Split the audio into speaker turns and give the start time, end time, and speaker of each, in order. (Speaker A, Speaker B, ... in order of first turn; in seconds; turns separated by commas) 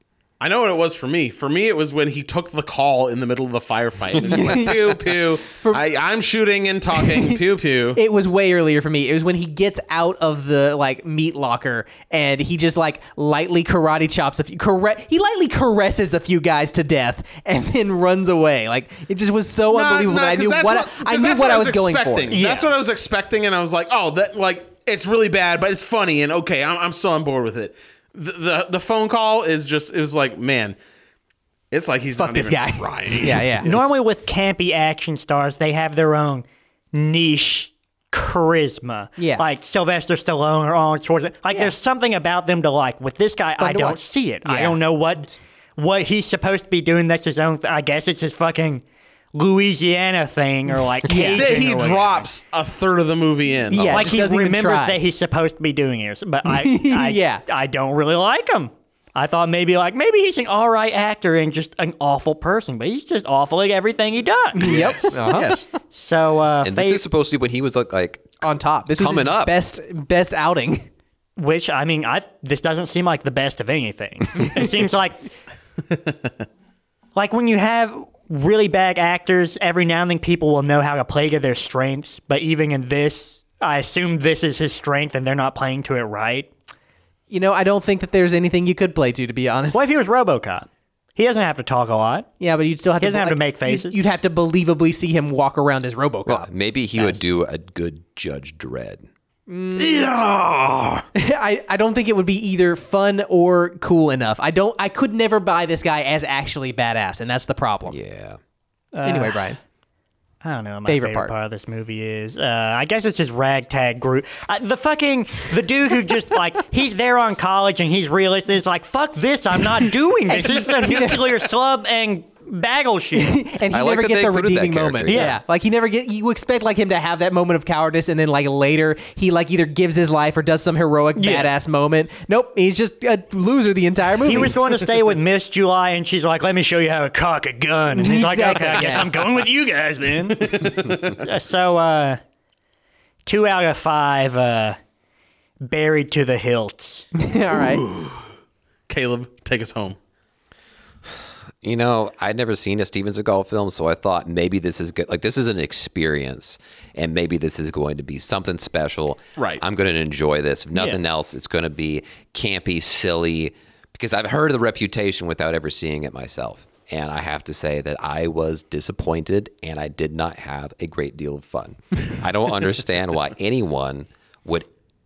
Speaker A: 0.4-8.0, Speaker B: 4.2-5.8, Speaker B: 7.0-7.4, Speaker B: 7.9-22.4, Speaker A: 19.7-30.8, Speaker C: 22.3-22.7, Speaker A: 31.7-33.8, Speaker B: 32.2-33.7, Speaker C: 33.6-48.8, Speaker B: 39.2-39.5, Speaker B: 43.5-45.4, Speaker C: 49.3-52.3, Speaker B: 51.0-51.5, Speaker A: 51.3-54.1, Speaker B: 53.7-55.0, Speaker C: 53.9-67.0, Speaker B: 56.5-57.4, Speaker B: 64.6-65.6, Speaker A: 64.6-65.6, Speaker D: 66.6-68.4, Speaker B: 68.4-70.9, Speaker D: 68.9-69.5, Speaker C: 71.4-75.3, Speaker C: 77.2-86.5, Speaker B: 87.3-89.9, Speaker C: 89.7-92.3, Speaker B: 92.4-97.2, Speaker C: 93.0-94.0, Speaker D: 96.3-99.1, Speaker B: 99.5-100.0, Speaker D: 100.7-101.0, Speaker B: 101.2-108.0, Speaker D: 107.9-108.4, Speaker C: 108.9-109.4, Speaker B: 109.0-109.6, Speaker C: 110.4-123.4, Speaker B: 110.9-111.3, Speaker B: 120.3-121.4, Speaker B: 123.2-134.8, Speaker D: 123.7-125.3, Speaker C: 125.1-125.4, Speaker C: 131.2-131.5, Speaker C: 134.2-142.2, Speaker B: 137.9-139.2, Speaker A: 140.3-141.2, Speaker C: 143.3-144.8, Speaker C: 145.6-147.1, Speaker B: 147.2-147.8, Speaker A: 147.8-148.2, Speaker A: 148.9-150.0, Speaker D: 151.6-174.7, Speaker A: 159.4-159.6, Speaker C: 160.8-161.0